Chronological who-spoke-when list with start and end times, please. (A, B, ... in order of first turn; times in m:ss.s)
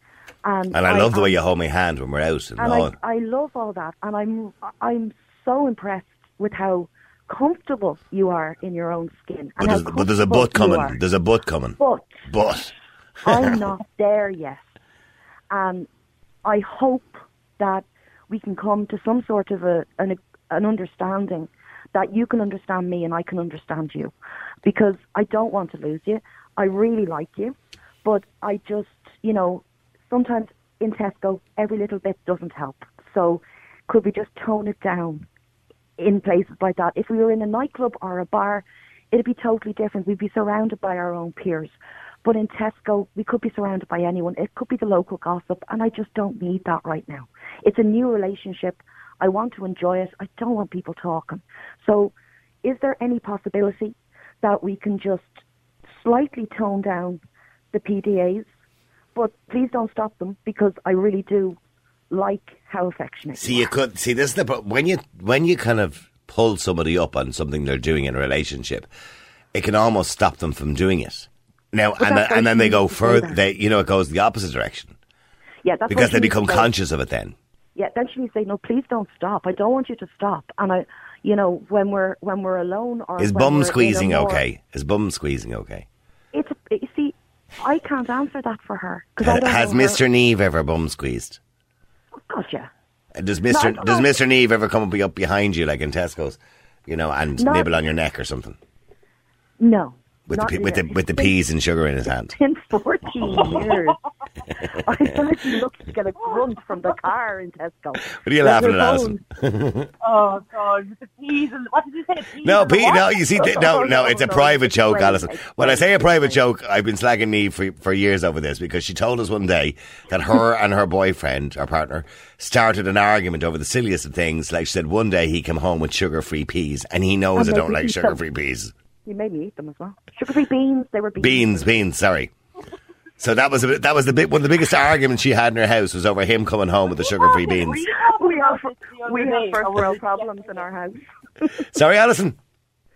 0:00.4-0:01.4 A
0:00.7-0:02.9 B
0:02.6-0:11.0 A
0:09.6-0:12.7 B
0:11.8-0:12.1 A
0:13.2-0:14.6 A
0:13.3-0:13.6 B
0:15.5-0:15.9 A
0:16.4-0:24.1 A
0:24.6-0:35.2 A
0:36.0-0:55.4 A
0:56.0-0:57.2 A
0:57.7-0:58.5 A
0:59.1-1:01.6 A
1:02.1-1:03.7 A
1:03.4-1:08.9 B
1:09.5-1:15.0 B
1:12.0-1:13.4 A
1:15.6-1:16.7 A
1:15.9-1:17.3 B
1:17.8-1:24.4 A
1:23.2-1:25.9 B
1:26.3-1:30.0 A
1:29.2-1:31.4 B
1:32.2-1:32.7 A
1:33.2-1:38.6 B
1:33.5-1:34.1 A
1:37.4-1:37.7 A
1:39.6-1:41.3 A
1:40.3-1:42.3 B
1:42.3-1:44.0 A
1:44.7-1:49.2 A
1:48.2-1:49.9 B
1:50.0-1:53.2 C
1:52.4-2:08.7 B
1:53.3-1:56.4 A
2:07.4-2:08.2 A
2:09.0-2:11.7 A
2:11.2-2:12.3 B
2:13.2-2:17.8 B
2:17.0-2:20.7 C
2:18.0-2:21.6 A
2:21.7-2:22.4 B